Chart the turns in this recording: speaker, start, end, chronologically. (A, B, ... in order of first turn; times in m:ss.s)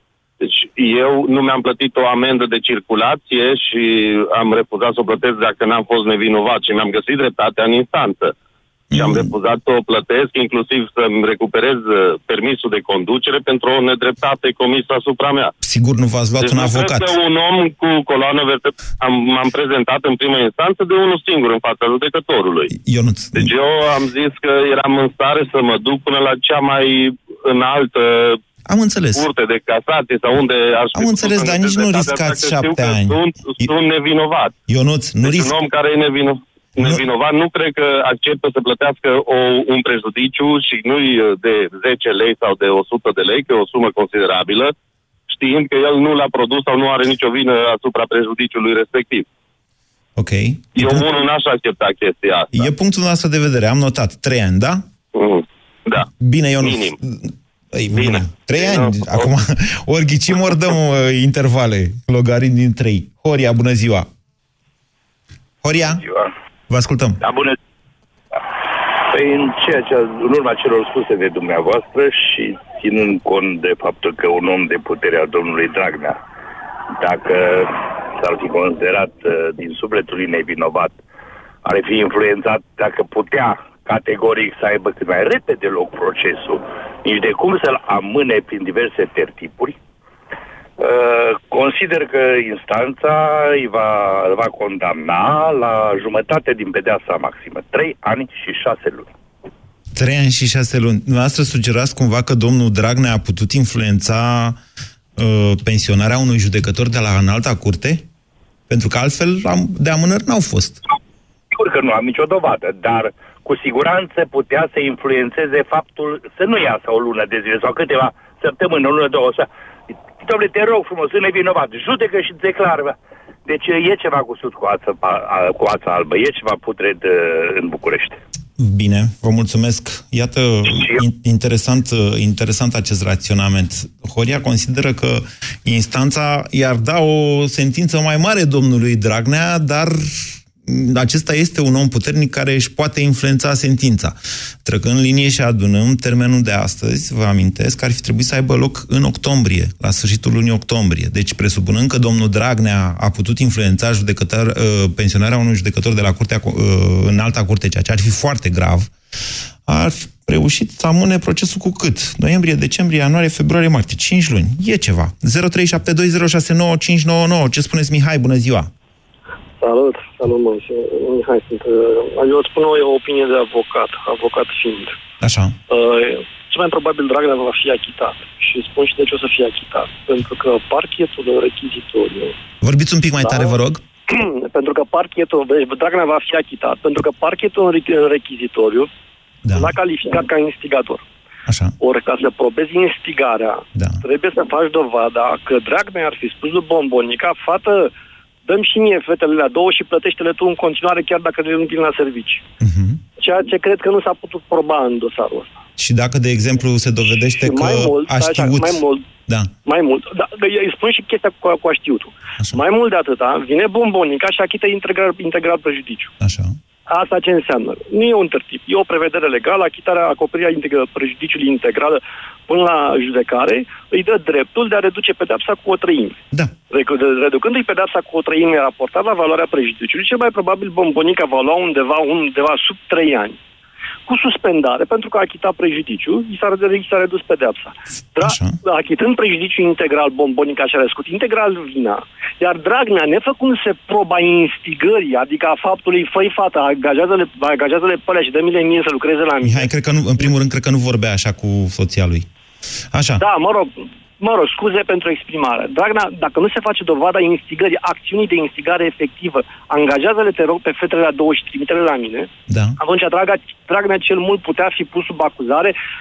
0:00.4-0:08.3 A
0:08.9-0:09.3 B
0:08.9-0:15.5 A
0:15.6-0:17.1 B
0:16.4-0:22.7 A
0:22.7-0:23.5 B
0:23.4-0:28.4 A
0:28.7-0:29.2 B
0:29.1-0:34.5 A
0:30.9-0:33.7 B
0:34.7-0:35.5 B
0:35.2-0:44.7 A
0:36.8-0:37.0 B
0:45.3-0:49.2 A
0:50.2-0:51.0 B
0:50.8-0:52.6 A
0:52.5-0:54.8 B
0:55.1-0:56.1 A
0:56.2-1:04.1 B
0:56.6-0:57.0 A
0:57.9-0:59.3 A
1:05.6-1:06.0 B
1:05.9-1:06.3 C
1:06.7-1:07.2 B
1:07.2-1:07.6 C
1:09.0-1:16.2 C
1:17.0-1:21.0 C
1:21.6-1:29.8 C
1:30.8-1:39.1 C
1:39.9-1:44.6 B
1:45.2-1:48.0 B
1:48.7-1:50.8 B
1:51.5-1:59.5 C
2:00.2-2:08.2 C
2:08.6-2:38.9 B
2:10.7-2:11.0 C
2:39.7-2:48.7 B
2:49.6-2:54.9 D
2:55.2-2:55.6 B
2:55.7-3:02.3 D
3:02.6-3:03.8 B
3:03.2-3:03.5 D
3:04.1-3:08.9 D
3:09.4-3:09.8 B
3:09.5-3:11.0 D
3:11.5-3:11.7 B
3:11.8-3:17.9 D
3:13.7-3:14.0 B
3:18.5-3:22.4 D
3:22.6-3:23.0 B
3:23.2-3:25.5 D
3:25.8-3:29.5 B
3:27.1-3:29.0 D
3:29.6-3:36.1 D
3:36.2-3:36.6 B
3:36.9-3:46.2 D
3:46.7-3:53.4 D
3:54.1-4:10.3 D
3:58.2-3:58.6 B
4:09.4-4:12.3 B
4:12.9-4:13.2 B
4:13.2-4:22.3 D
4:22.5-4:22.8 B
4:22.8-4:25.7 D